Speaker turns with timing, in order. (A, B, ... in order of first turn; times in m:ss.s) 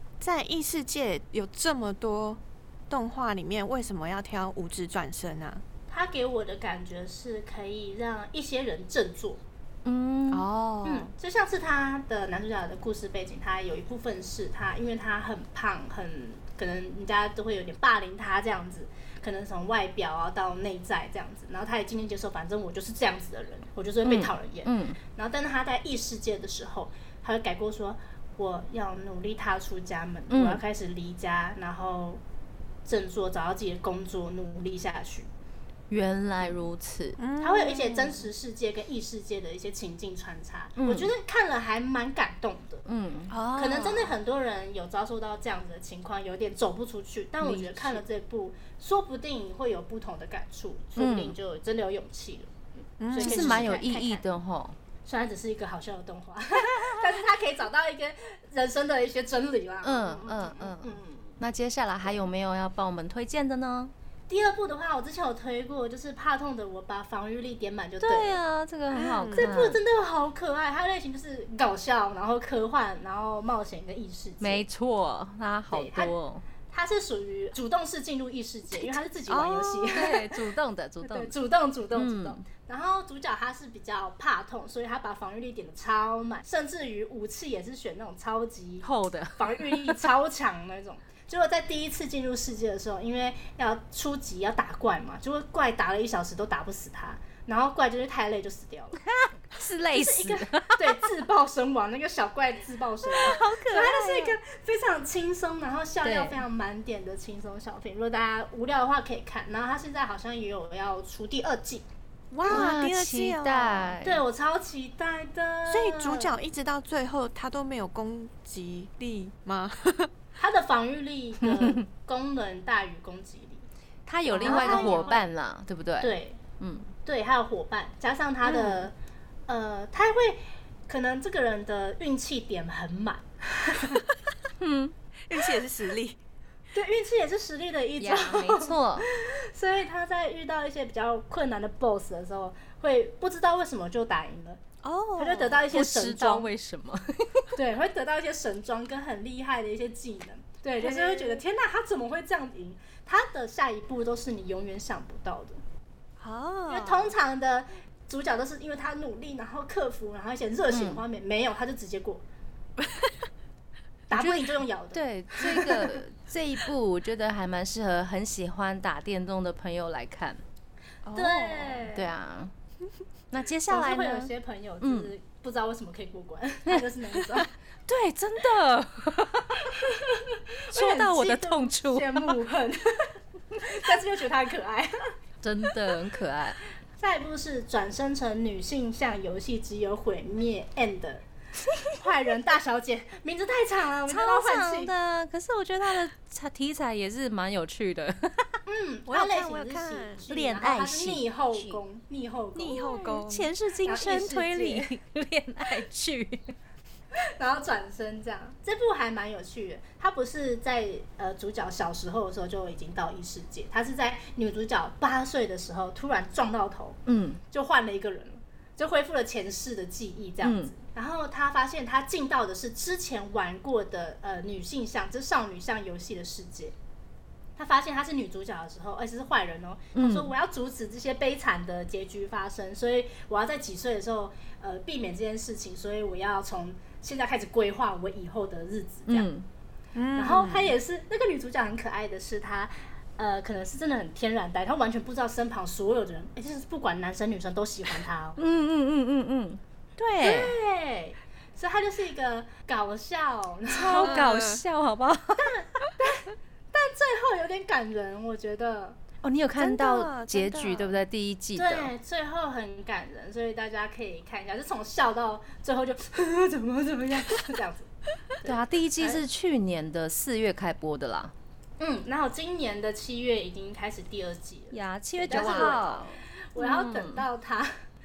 0:00.2-0:05.6 A
0:05.9-0:09.4 B
0:09.8-0:10.4 C
0:10.3-0:11.1 A
0:10.8-0:32.2 B
0:24.0-0:25.0 C
0:30.3-0:30.6 C
0:32.8-0:35.3 B
0:35.9-0:37.2 C
0:37.2-0:38.0 A
0:37.4-0:42.8 B
0:40.8-0:41.1 C
0:42.8-0:43.4 C
0:43.3-0:44.1 A
0:43.5-0:52.5 B
0:47.4-0:48.0 C
0:51.0-0:51.3 C
0:53.0-0:53.7 A
0:53.1-0:54.2 B
0:53.2-0:54.8 C
0:55.0-1:01.4 B
0:59.8-1:03.9 C
1:04.3-1:08.4 B
1:08.0-1:09.8 C
1:08.9-1:09.5 A
1:09.3-1:14.6 B
1:14.4-1:16.4 C
1:15.7-1:16.1 B
1:16.7-1:20.4 B
1:18.7-1:19.0 C
1:19.3-1:19.9 A
1:19.8-1:21.3 C
1:21.0-1:39.0 B
1:21.9-1:22.4 C
1:28.8-1:30.1 C
1:39.2-1:41.0 C
1:39.9-1:51.8 B
1:43.0-1:44.4 C
1:46.0-1:46.4 C
1:52.3-1:54.0 A
1:52.4-1:54.2 C
1:54.0-1:56.3 B
1:55.7-2:00.1 A
2:00.4-2:03.6 B
2:01.4-2:01.8 C
2:04.0-2:06.9 C
2:04.3-2:05.1 A
2:04.3-2:05.2 B
2:06.0-2:06.4 B
2:07.0-2:08.9 B
2:08.4-2:08.9 C
2:09.5-2:14.0 B
2:14.6-2:14.9 C
2:15.3-2:16.2 A
2:16.7-2:24.6 B
2:18.0-2:19.1 C
2:24.8-2:25.7 A
2:25.2-2:26.5 B
2:25.7-2:27.5 C
2:27.6-2:35.6 B
2:30.8-2:31.2 C
2:36.2-2:37.1 A
2:36.7-2:42.2 B
2:40.7-2:41.0 C
2:42.8-2:43.1 A
2:44.1-2:45.7 B
2:44.1-2:50.4 C
2:51.0-2:51.8 A
2:51.1-2:52.1 B
2:51.9-2:52.5 C
2:53.3-2:55.1 C
2:53.7-2:57.5 B
2:57.9-2:59.8 C
2:59.7-3:05.1 B
3:00.7-3:02.3 C
3:05.4-3:06.6 C
3:07.0-3:11.2 B
3:11.8-3:14.9 B
3:14.1-3:18.6 C
3:18.7-3:22.9 B
3:19.0-3:20.2 A
3:20.3-3:21.8 C
3:22.5-3:23.5 A
3:22.6-3:26.5 C
3:23.8-3:24.9 B
3:27.2-3:37.0 B
3:37.0-3:37.4 C
3:37.5-3:46.7 B
3:40.4-3:40.7 C
3:47.6-3:59.3 B
3:49.9-3:50.3 C
3:59.1-3:59.4 C
3:59.9-4:00.8 A
4:00.2-4:08.4 B
4:08.4-4:10.6 C
4:10.2-4:14.2 B
4:13.7-4:15.6 C
4:14.0-4:14.6 A
4:15.4-4:19.0 B
4:19.2-4:21.9 C
4:19.6-4:21.0 A
4:21.6-4:27.9 B
4:28.4-4:29.2 B
4:28.4-4:31.3 C
4:31.8-4:37.7 B
4:34.7-4:37.2 C
4:35.3-4:35.9 A